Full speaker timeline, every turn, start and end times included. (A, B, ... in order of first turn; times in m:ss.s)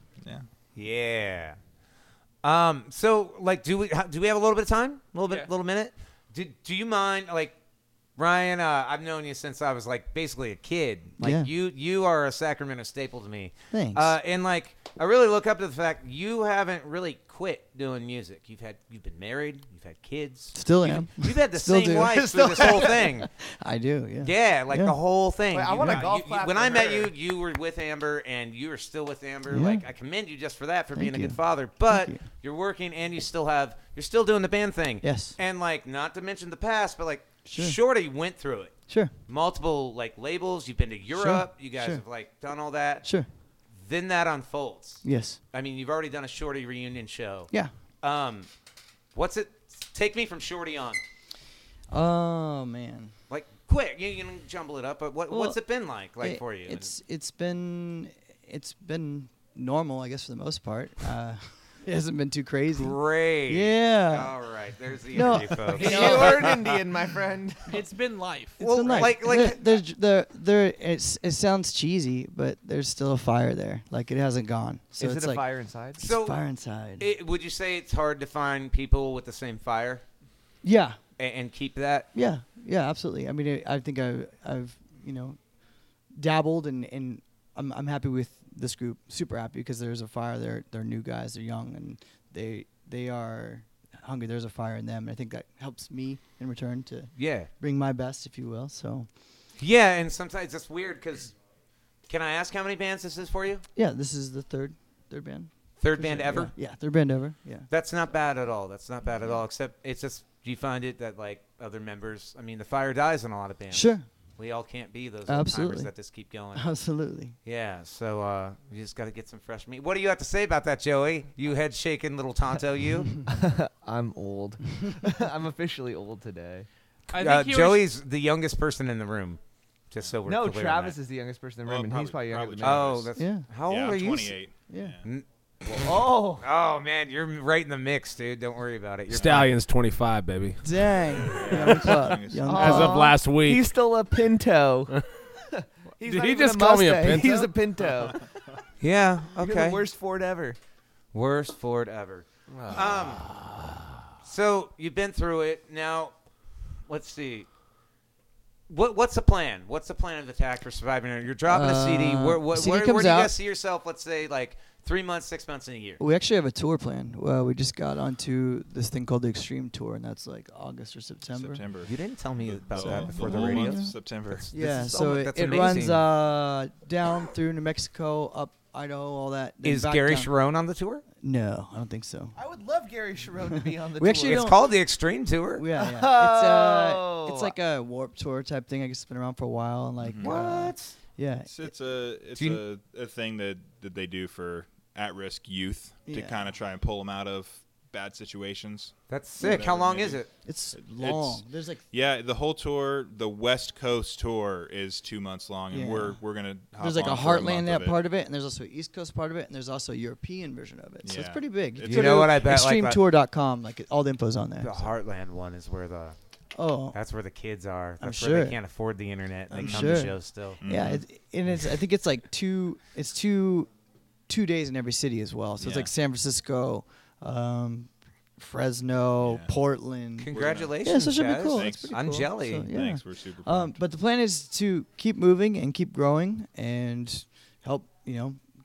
0:00.8-0:01.6 A
0:02.4-0:07.6 A
0:05.2-0:05.5 B
0:08.2-0:23.3 A
0:11.2-0:11.5 C
0:13.7-0:14.2 C
0:20.5-0:22.9 C
0:22.1-0:23.1 D
0:23.5-0:25.0 C
0:24.2-0:38.8 A
0:25.5-0:27.1 D
0:25.8-0:26.1 C
0:29.5-0:29.8 C
0:30.9-0:32.2 C
0:35.0-0:35.4 C
0:37.4-0:37.8 C
0:39.3-0:43.1 A
0:41.1-0:42.0 C
0:43.8-0:48.5 A
0:45.0-0:45.4 C
0:49.1-0:51.0 A
0:51.9-0:53.1 C
0:53.3-0:56.9 A
0:55.3-0:55.6 C
0:56.1-1:04.4 C
1:02.7-1:06.8 A
1:05.1-1:06.3 C
1:05.7-1:07.8 D
1:05.8-1:06.4 B
1:07.7-1:08.6 B
1:08.6-1:09.8 A
1:08.6-1:17.1 C
1:15.0-1:16.0 D
1:16.0-1:16.4 A
1:17.0-1:20.0 A
1:20.6-1:21.0 C
1:21.2-1:22.1 A
1:22.1-1:25.4 C
1:26.1-1:39.1 C
1:37.2-1:37.5 A
1:39.6-1:41.4 A
1:42.1-1:43.6 A
1:43.8-1:47.7 C
1:45.8-1:46.6 A
1:47.7-1:56.7 A
1:53.7-1:54.1 C
1:55.3-1:55.9 C
1:56.5-1:57.4 C
1:57.4-2:03.2 A
2:03.2-2:06.7 D
2:07.1-2:07.9 B
2:07.2-2:11.0 A
2:10.2-2:13.0 D
2:11.6-2:13.1 E
2:12.6-2:14.5 A
2:13.2-2:13.5 C
2:13.6-2:15.0 E
2:14.7-2:15.0 C
2:15.0-2:19.5 A
2:15.8-2:16.4 D
2:19.1-2:19.5 E
2:19.1-2:22.0 F
2:20.6-2:23.1 C
2:21.4-2:22.7 E
2:22.5-2:25.0 D
2:22.5-2:23.7 F
2:25.6-2:28.2 D
2:26.0-2:27.5 F
2:28.8-2:29.8 A
2:29.3-2:30.6 D
2:31.1-2:33.2 A
2:32.5-2:33.7 F
2:34.2-2:36.2 A
2:36.8-2:37.5 A
2:38.7-2:46.0 A
2:41.4-2:43.3 C
2:46.0-2:51.6 C
2:51.3-2:54.6 E
2:51.8-2:56.0 A
2:52.8-3:00.3 C
2:59.6-3:01.0 A
3:01.2-3:02.4 C
3:02.4-3:04.5 D
3:03.5-3:04.6 C
3:04.2-3:05.7 A
3:05.5-3:11.7 C
3:05.8-3:07.5 D
3:10.0-3:10.3 E
3:10.2-3:11.0 A
3:11.5-3:28.0 E
3:12.3-3:12.6 A
3:16.1-3:16.5 C
3:19.1-3:20.4 A
3:19.4-3:19.7 C
3:20.4-3:21.8 C
3:25.7-3:26.2 C
3:26.8-3:34.8 C
3:31.0-3:32.3 E
3:31.8-3:33.0 A
3:34.6-3:36.2 A
3:36.6-3:37.0 C
3:36.9-3:40.6 A
3:38.0-3:38.6 C
3:39.5-3:43.7 C
3:39.6-3:40.1 E
3:40.6-3:41.0 E
3:44.3-3:58.4 C
3:45.6-3:45.9 E
3:49.2-3:49.5 E
3:50.2-3:52.7 A
3:50.3-3:50.8 E
3:51.5-3:52.0 E
3:52.7-3:53.8 E